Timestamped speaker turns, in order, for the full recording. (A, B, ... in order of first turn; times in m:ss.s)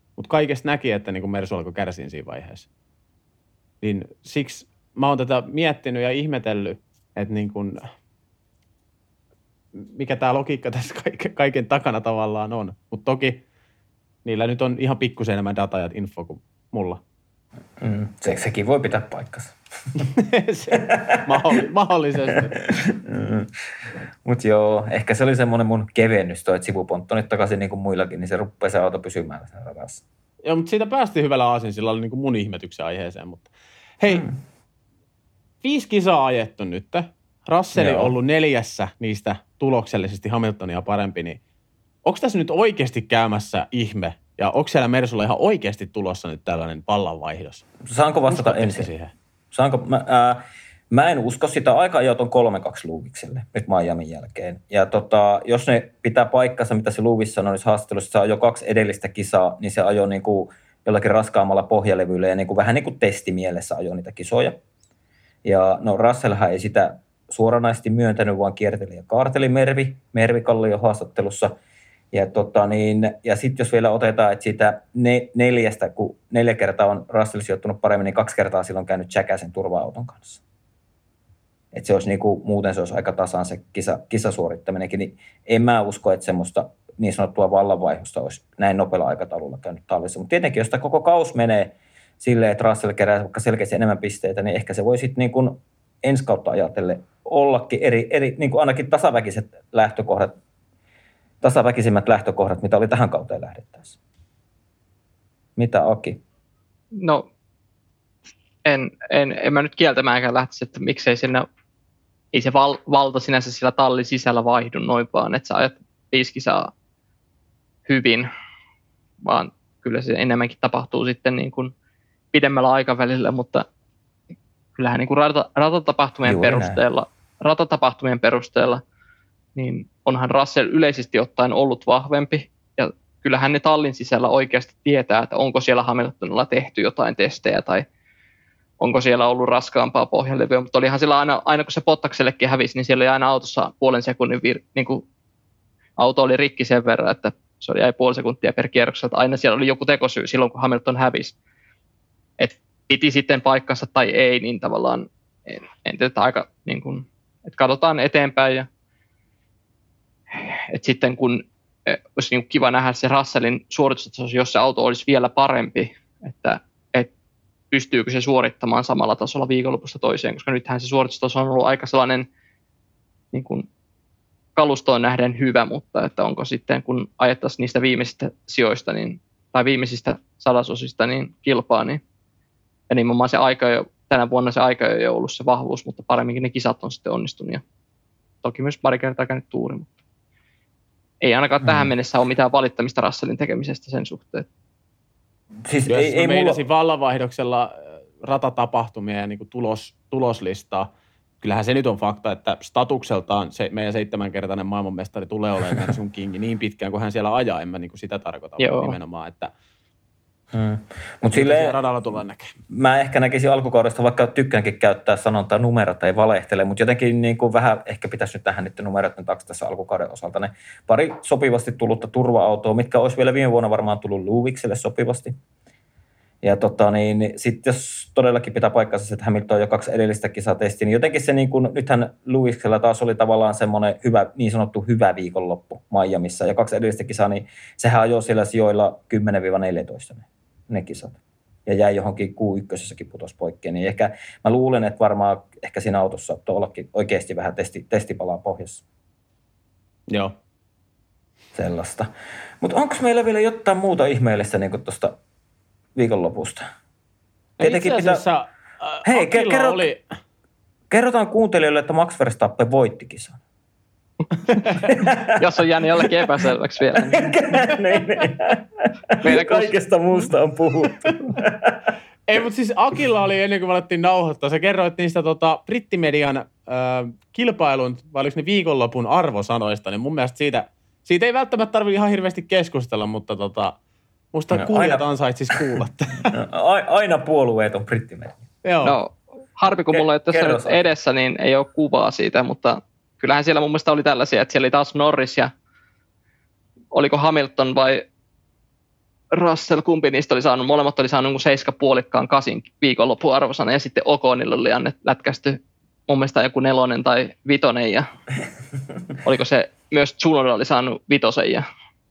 0:00.2-0:02.7 A
0:03.8-0:07.8 A
0:09.7-0:13.4 A
0:14.2-0:17.0 A
0:17.8-0:19.5 B
0:20.1-0:22.5 A
0:20.9-0:21.2 B
0:22.3-0:23.5 B
0:24.2-0:30.0 B
0:30.4-0:34.2 A
0:35.6-0:41.4 A
0:37.7-0:38.1 B
0:42.0-0:47.6 A
0:47.8-0:48.9 B
0:48.3-0:49.1 A
0:49.5-1:04.6 B
1:05.4-1:11.6 B
1:12.1-1:20.4 B
1:21.7-1:40.4 B
1:41.4-1:44.0 B
1:45.6-1:46.2 B
1:46.9-1:47.2 C
1:48.6-1:51.4 C
1:52.3-1:56.7 C
1:57.9-1:58.3 C
1:59.2-2:01.7 C
2:02.3-2:03.6 C
2:04.8-2:08.8 C
2:06.2-2:06.8 B
2:09.6-2:17.8 C
2:18.8-2:25.0 C
2:26.0-2:31.3 C
2:32.4-2:38.7 C
2:40.3-2:47.1 C
2:47.7-2:52.3 C
2:53.3-2:53.7 C
2:54.6-3:02.0 C
3:02.9-3:07.6 C
3:08.4-3:09.9 C
3:11.2-3:14.4 C
3:11.6-3:11.9 B
3:15.6-3:16.6 B
3:15.9-3:20.9 A
3:21.4-3:29.5 A
3:28.6-3:29.0 C
3:30.5-3:31.8 B
3:31.3-3:32.5 A
3:32.7-3:45.3 B
3:46.4-4:08.8 B
4:10.1-4:10.3 A
4:11.5-4:12.1 B
4:12.6-4:15.2 B
4:16.0-4:16.6 B
4:17.6-4:20.0 A
4:17.6-4:18.2 B
4:19.0-4:19.8 B
4:20.9-4:23.4 B
4:24.5-4:24.8 A
4:24.8-4:25.4 B
4:25.4-4:27.2 C
4:27.1-4:31.9 B
4:29.2-4:29.8 C
4:32.3-4:43.8 A
4:44.3-4:46.3 A
4:44.5-4:45.6 B
4:46.3-4:48.4 B
4:48.6-4:49.0 A
4:48.8-4:55.5 C
4:49.9-4:50.8 B
4:56.9-4:58.0 C
4:59.3-5:08.1 C
5:09.2-5:11.6 C